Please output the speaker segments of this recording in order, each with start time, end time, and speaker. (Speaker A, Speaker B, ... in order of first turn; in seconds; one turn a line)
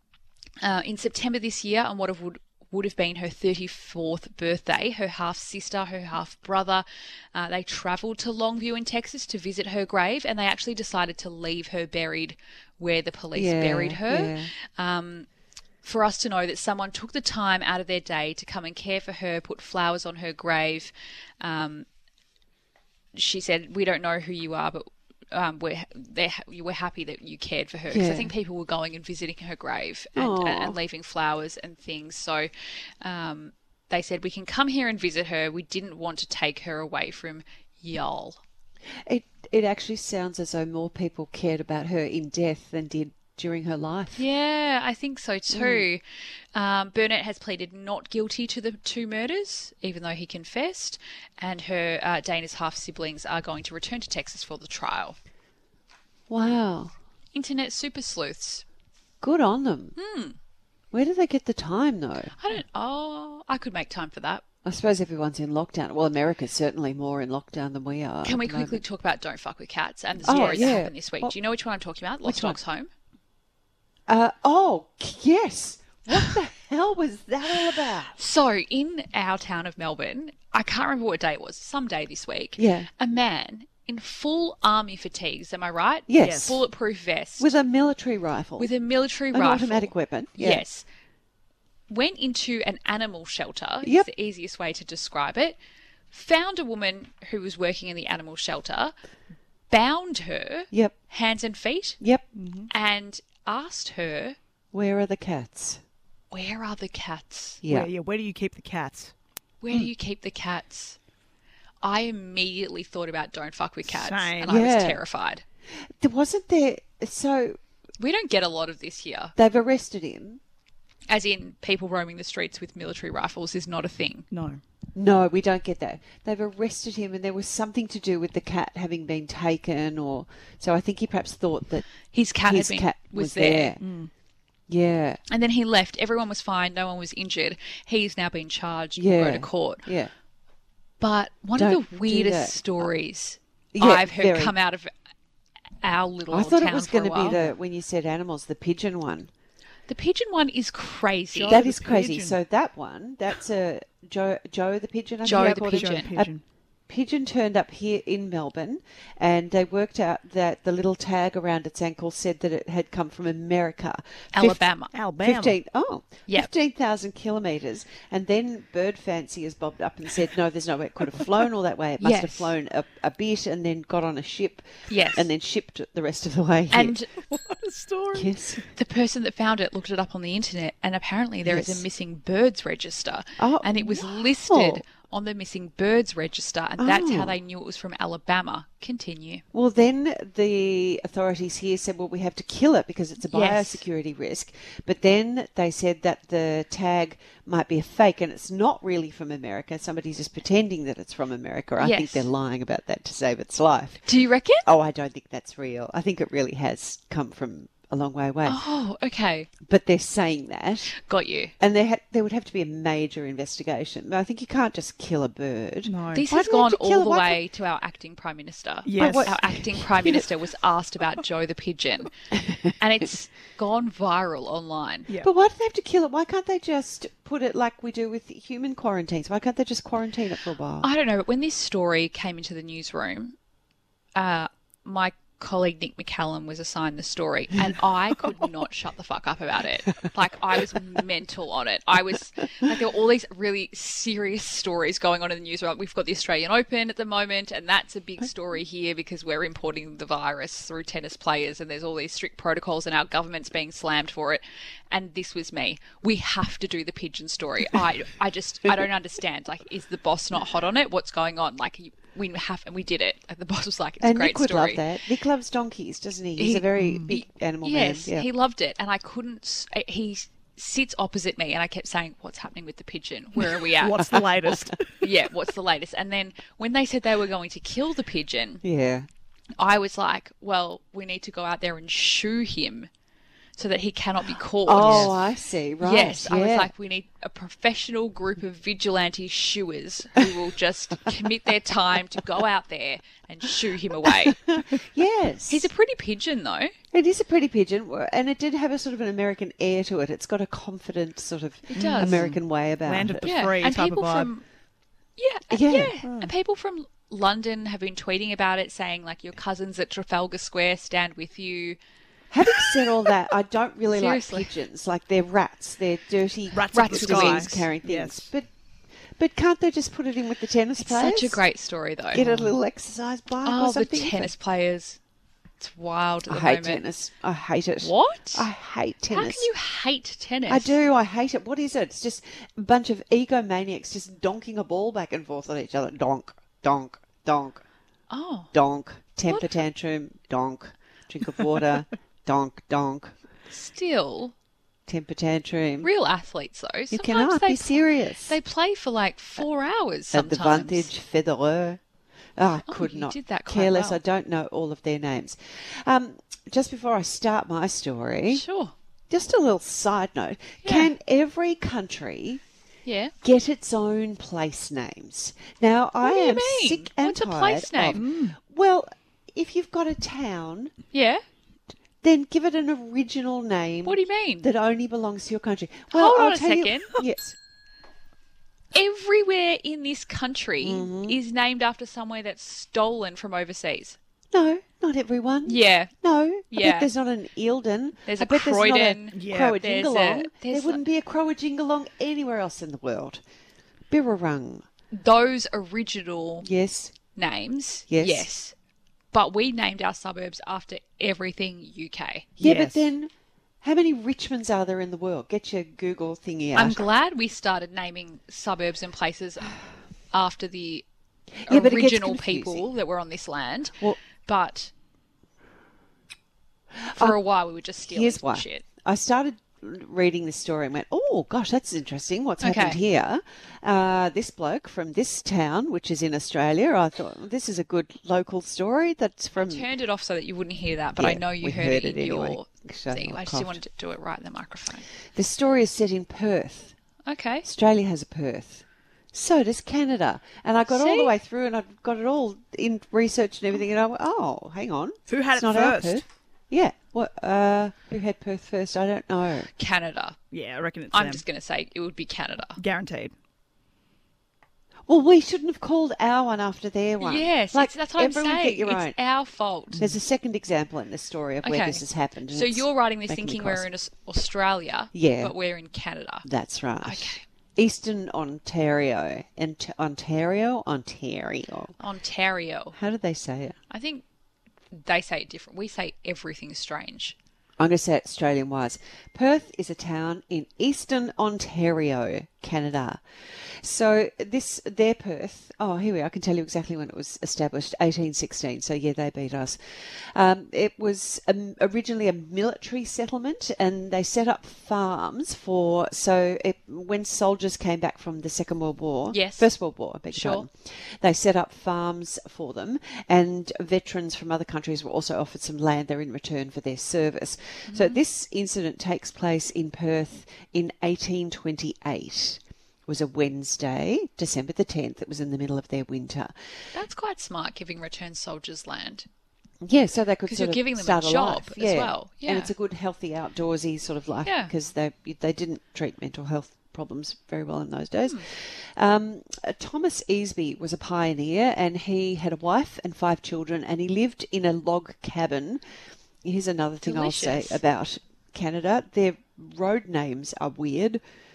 Speaker A: 0.6-15.3
Speaker B: 13.3-14.5
Speaker A: 15.8-21.9
Speaker A: 23.1-32.5
Speaker B: 27.9-28.3
Speaker B: 30.2-30.8
Speaker A: 33.0-38.4
Speaker B: 39.0-44.2
Speaker A: 44.2-46.0
Speaker B: 45.5-45.9
Speaker A: 46.5-55.2
Speaker B: 56.3-56.9
Speaker A: 57.3-58.6
Speaker B: 59.2-60.0
Speaker A: 60.0-60.4
Speaker B: 60.9-62.3
Speaker A: 62.4-64.4
Speaker B: 64.6-68.8
Speaker A: 68.2-72.9
Speaker B: 70.2-71.3
Speaker C: 70.3-70.7
Speaker B: 72.2-72.6
Speaker B: 74.1-78.2
Speaker A: 78.2-87.5
Speaker B: 82.6-82.9
Speaker B: 86.1-86.6
Speaker C: 86.2-86.6
Speaker B: 87.4-88.7
Speaker A: 88.6-90.8
Speaker B: 89.3-90.6
Speaker A: 91.9-95.6
Speaker B: 93.8-94.1
Speaker A: 96.1-98.9
Speaker A: 99.7-102.0
Speaker C: 102.3-102.7
Speaker A: 102.7-104.4
Speaker B: 104.7-105.8
Speaker A: 106.3-107.6
Speaker B: 107.6-107.9
Speaker C: 107.7-109.1
Speaker A: 109.6-111.0
Speaker A: 111.8-115.4
Speaker C: 113.9-114.5
Speaker B: 114.5-115.0
Speaker B: 115.8-117.6
Speaker A: 118.0-119.3
Speaker B: 119.4-120.4
Speaker A: 121.1-124.3
Speaker C: 124.3-124.6
Speaker B: 125.0-131.9
Speaker A: 132.1-133.8
Speaker B: 132.4-133.8
Speaker C: 133.8-134.1
Speaker B: 134.7-135.2
Speaker A: 135.3-139.9
Speaker B: 139.0-140.1
Speaker A: 141.0-144.9
Speaker B: 141.6-142.8
Speaker B: 143.7-144.5
Speaker A: 145.8-147.5
Speaker B: 146.3-149.3
Speaker A: 149.9-151.6
Speaker C: 151.3-152.4
Speaker B: 151.5-156.3
Speaker A: 155.2-156.1
Speaker C: 155.3-156.4
Speaker B: 156.9-164.6
Speaker A: 164.3-164.9
Speaker C: 164.9-165.6
Speaker B: 165.2-177.0
Speaker A: 172.0-172.5
Speaker A: 174.9-175.3
Speaker A: 176.7-177.1
Speaker C: 177.2-178.4
Speaker B: 178.1-178.6
Speaker A: 178.8-189.4
Speaker B: 181.4-181.8
Speaker B: 183.4-184.8
Speaker B: 186.8-187.3
Speaker B: 189.5-204.1
Speaker A: 193.3-193.8
Speaker A: 201.8-202.3
Speaker A: 204.1-204.7
Speaker B: 204.6-208.6
Speaker A: 208.5-209.5
Speaker B: 209.6-210.9
Speaker A: 210.9-211.5
Speaker B: 211.6-217.4
Speaker C: 215.9-216.2
Speaker A: 216.1-222.1
Speaker C: 218.8-219.4
Speaker B: 219.0-220.3
Speaker B: 222.3-222.7
Speaker A: 222.8-225.1
Speaker B: 225.2-230.9
Speaker A: 230.8-233.4
Speaker A: 234.2-264.8
Speaker B: 264.0-268.3
Speaker A: 266.4-274.3
Speaker C: 266.8-267.1
Speaker C: 273.6-275.1
Speaker A: 275.0-278.6
Speaker B: 278.6-279.1
Speaker A: 279.6-282.9
Speaker A: 283.6-285.2
Speaker B: 284.6-286.7
Speaker C: 284.8-285.1
Speaker A: 285.8-294.4
Speaker B: 294.1-295.7
Speaker A: 295.5-296.7
Speaker B: 296.9-303.4
Speaker A: 301.7-302.3
Speaker C: 301.8-304.3
Speaker A: 303.2-304.4
Speaker A: 305.2-311.8
Speaker B: 305.5-305.9
Speaker C: 306.0-306.3
Speaker B: 312.3-318.5
Speaker A: 313.9-314.5
Speaker C: 316.5-318.3
Speaker A: 316.7-317.7
Speaker B: 319.2-321.4
Speaker A: 320.8-322.6
Speaker B: 322.1-324.3
Speaker A: 323.4-325.0
Speaker A: 325.6-326.8
Speaker B: 326.3-329.5
Speaker A: 327.8-328.5
Speaker A: 329.1-330.8
Speaker B: 330.5-337.6
Speaker A: 338.1-338.5
Speaker B: 338.5-343.1
Speaker A: 343.5-344.3
Speaker B: 344.9-345.9
Speaker A: 345.8-350.9
Speaker B: 346.9-348.4
Speaker B: 350.1-351.8
Speaker B: 352.4-358.4
Speaker A: 352.7-354.0
Speaker A: 358.3-358.7
Speaker B: 359.1-362.4
Speaker A: 360.6-360.9
Speaker A: 362.9-363.1
Speaker B: 363.2-370.7
Speaker A: 366.0-368.0
Speaker C: 367.9-368.4
Speaker A: 370.9-371.2
Speaker B: 372.0-377.4
Speaker A: 373.9-374.5
Speaker A: 375.9-377.0
Speaker A: 378.7-384.0
Speaker B: 380.6-381.2
Speaker B: 384.3-393.2
Speaker A: 385.5-385.9
Speaker A: 386.5-386.9
Speaker A: 388.1-390.8
Speaker C: 389.1-389.6
Speaker B: 393.9-394.6
Speaker A: 394.9-396.5
Speaker B: 396.4-396.9
Speaker A: 397.1-398.5
Speaker B: 397.9-398.3
Speaker A: 399.1-402.3
Speaker B: 402.4-403.1
Speaker C: 402.4-402.8
Speaker B: 403.6-406.8
Speaker A: 406.6-409.6
Speaker A: 410.1-410.9
Speaker B: 411.4-412.6
Speaker A: 411.5-414.7
Speaker B: 416.8-417.2
Speaker A: 416.9-418.7
Speaker B: 417.9-429.7
Speaker A: 422.4-422.8
Speaker A: 429.4-434.9
Speaker B: 431.0-433.6
Speaker B: 435.1-436.8
Speaker A: 437.1-437.5
Speaker B: 437.4-449.5
Speaker A: 440.7-441.1
Speaker C: 445.1-446.0
Speaker A: 449.6-450.2
Speaker C: 450.3-451.2
Speaker A: 450.9-452.6
Speaker C: 452.6-453.1
Speaker B: 454.9-458.9
Speaker A: 457.0-459.8
Speaker B: 459.8-463.7
Speaker A: 461.4-466.3
Speaker B: 464.9-465.3
Speaker B: 466.2-471.8
Speaker A: 466.8-467.2
Speaker A: 471.8-472.8
Speaker B: 472.8-473.6
Speaker A: 473.7-474.0
Speaker A: 474.7-477.2
Speaker B: 477.6-483.0
Speaker B: 483.6-516.3
Speaker A: 499.1-499.5
Speaker A: 500.1-500.5
Speaker A: 507.7-508.0
Speaker A: 516.7-519.1
Speaker B: 519.6-535.6
Speaker A: 520.3-522.5
Speaker A: 524.2-524.5
Speaker B: 536.2-541.0
Speaker A: 536.8-537.6